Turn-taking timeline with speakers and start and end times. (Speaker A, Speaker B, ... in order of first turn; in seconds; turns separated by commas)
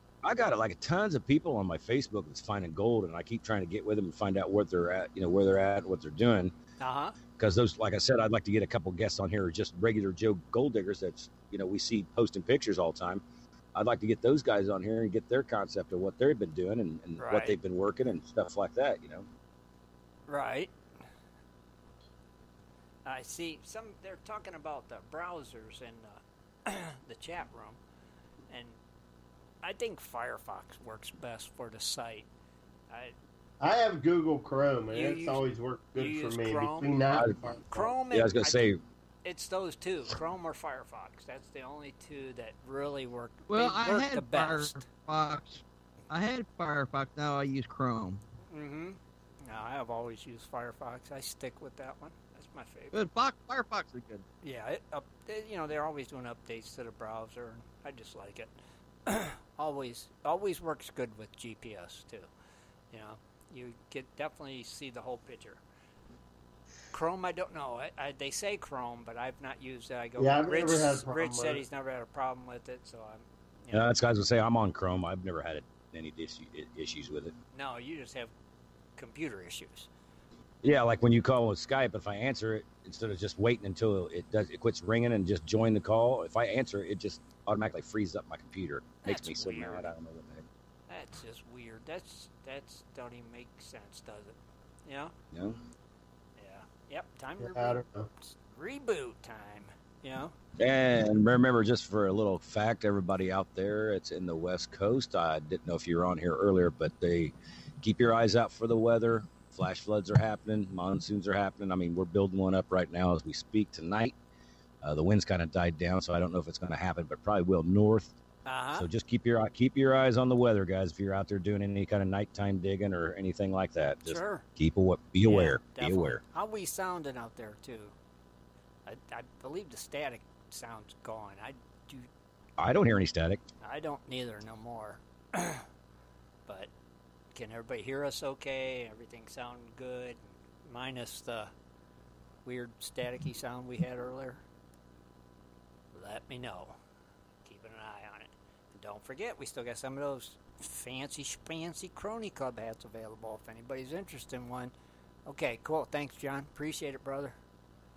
Speaker A: 0.2-6.5, Speaker B: 6.8-7.2, Speaker A: 7.4-19.3, Speaker B: 17.2-17.6, Speaker B: 20.3-20.7, Speaker B: 23.1-27.8, Speaker B: 28.5-28.8, Speaker B: 29.6-32.3, Speaker B: 32.9-33.1, Speaker C: 33.6-37.9, Speaker B: 34.9-35.4, Speaker B: 36.0-37.0, Speaker A: 37.1-37.4, Speaker B: 37.7-44.9, Speaker A: 38.1-38.8, Speaker D: 43.5-48.2, Speaker B: 48.5-53.0, Speaker D: 52.9-54.2, Speaker B: 54.4-58.5, Speaker B: 59.0-62.3, Speaker B: 62.9-65.6, Speaker B: 66.9-73.9, Speaker C: 70.2-71.6, Speaker A: 73.7-77.3, Speaker B: 77.5-78.3, Speaker B: 79.0-79.9, Speaker A: 80.6-90.4, Speaker B: 89.0-89.9, Speaker B: 90.9-95.1, Speaker A: 95.3-95.6, Speaker B: 96.4-100.3, Speaker C: 97.4-98.1, Speaker A: 100.6-114.1, Speaker A: 114.8-118.1, Speaker B: 118.4-118.9, Speaker A: 118.7-126.2, Speaker B: 124.0-124.4, Speaker B: 125.2-127.9, Speaker B: 128.8-132.1, Speaker A: 132.6-133.4, Speaker B: 133.6-135.7, Speaker B: 137.3-141.5, Speaker B: 142.4-144.4, Speaker B: 145.9-146.8, Speaker B: 147.4-154.7, Speaker B: 155.3-157.3